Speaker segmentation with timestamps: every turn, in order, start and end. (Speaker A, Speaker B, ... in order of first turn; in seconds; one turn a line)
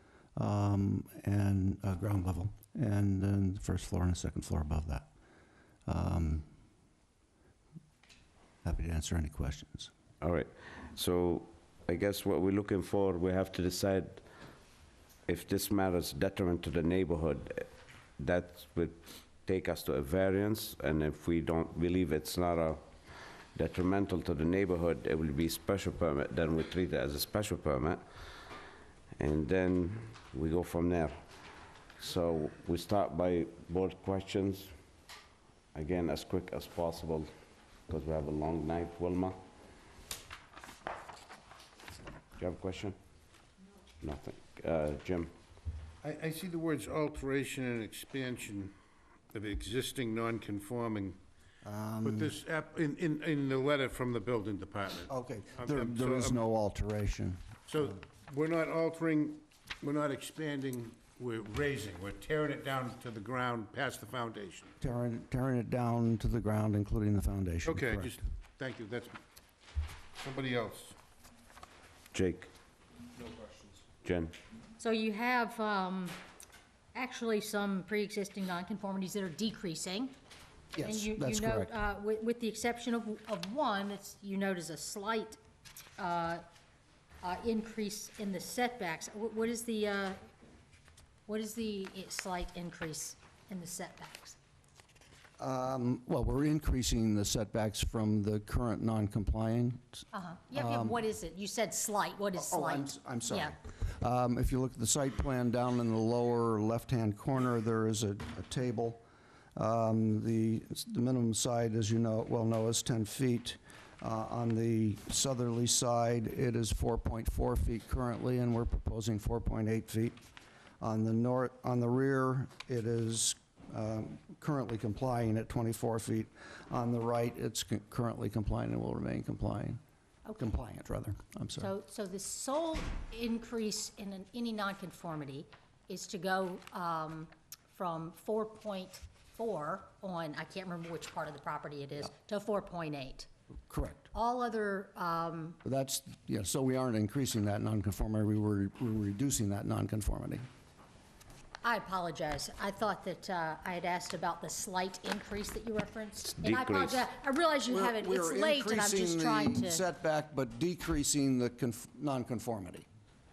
Speaker A: 0.3-5.1
Speaker A: 5.8-6.5
Speaker A: 8.6-9.9
Speaker B: 10.2-14.2
Speaker B: 15.3-17.7
Speaker B: 18.2-22.8
Speaker B: 23.5-28.0
Speaker B: 29.2-31.3
Speaker B: 32.0-34.7
Speaker B: 35.7-37.3
Speaker B: 37.9-39.4
Speaker B: 42.4-43.0
Speaker B: 44.0-45.3
Speaker C: 46.0-48.7
Speaker C: 49.3-51.2
Speaker A: 51.6-52.3
Speaker C: 52.0-56.4
Speaker A: 55.1-57.4
Speaker C: 57.7-64.7
Speaker A: 64.8-68.2
Speaker C: 67.6-69.2
Speaker C: 70.2-71.0
Speaker B: 72.1-72.5
Speaker B: 74.0-74.3
Speaker D: 74.8-76.2
Speaker D: 76.9-80.1
Speaker A: 80.7-81.7
Speaker D: 80.8-85.4
Speaker D: 86.0-86.4
Speaker D: 87.2-90.2
Speaker D: 91.3-94.4
Speaker A: 95.4-101.0
Speaker D: 100.1-103.5
Speaker A: 102.3-109.0
Speaker A: 109.5-120.2
Speaker A: 120.8-129.8
Speaker D: 130.2-130.6
Speaker A: 130.4-131.7
Speaker D: 131.6-143.3
Speaker A: 143.7-144.1
Speaker D: 144.1-145.6
Speaker A: 145.6-150.4
Speaker D: 151.6-159.8
Speaker B: 156.3-157.1
Speaker A: 157.7-162.9